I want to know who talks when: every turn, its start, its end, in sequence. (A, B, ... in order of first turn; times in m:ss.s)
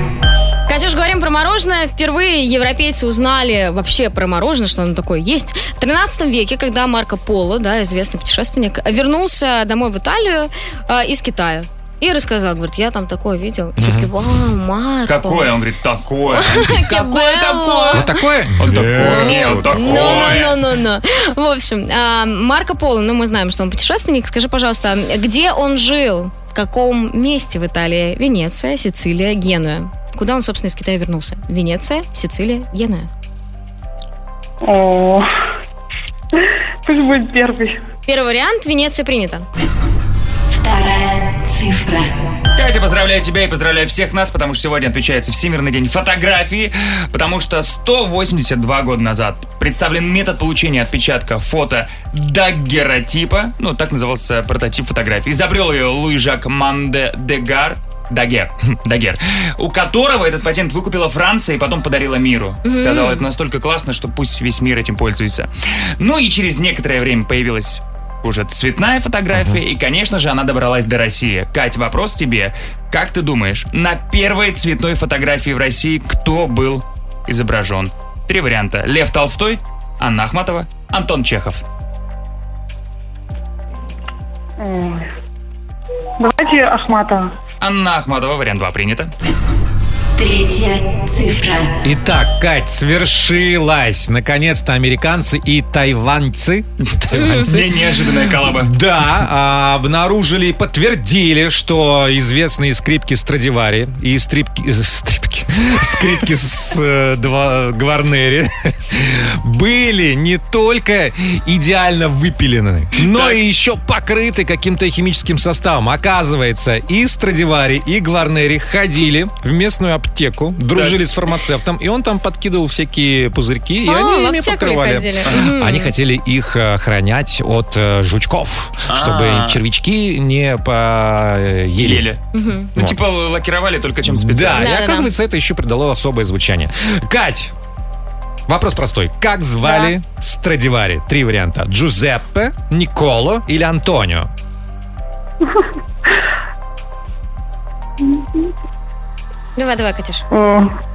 0:00.7-0:15.5 A
0:13.8-0:14.1 B
0:15.1-0:20.6 C
0:16.3-0:18.1 A
0:17.9-0:20.4 B
0:18.9-0:33.1 A
0:34.6-0:35.3 D
0:36.8-0:37.8 D
0:38.1-0:39.4 A
0:40.5-0:42.1 E
0:42.5-1:21.6 C
1:02.6-1:03.2 A
1:09.3-1:09.6 B
1:24.6-1:25.1 D
1:26.2-1:27.3 D
1:27.6-1:29.1 C
1:30.2-1:31.7 E
1:31.8-1:37.8 B
1:37.1-1:37.5 A
1:37.4-1:38.7 C
1:38.5-2:12.0 B
1:53.0-1:53.4 C
2:00.7-2:01.0 C
2:03.8-2:05.9 A
2:08.9-2:09.6 C
2:11.8-2:12.2 C
2:12.3-2:12.7 A
2:12.8-2:14.7 C
2:14.0-2:17.5 B
2:14.6-2:15.1 A
2:18.5-2:24.3 B
2:28.0-2:28.5 D
2:29.6-2:30.2 A
2:30.3-2:30.7 D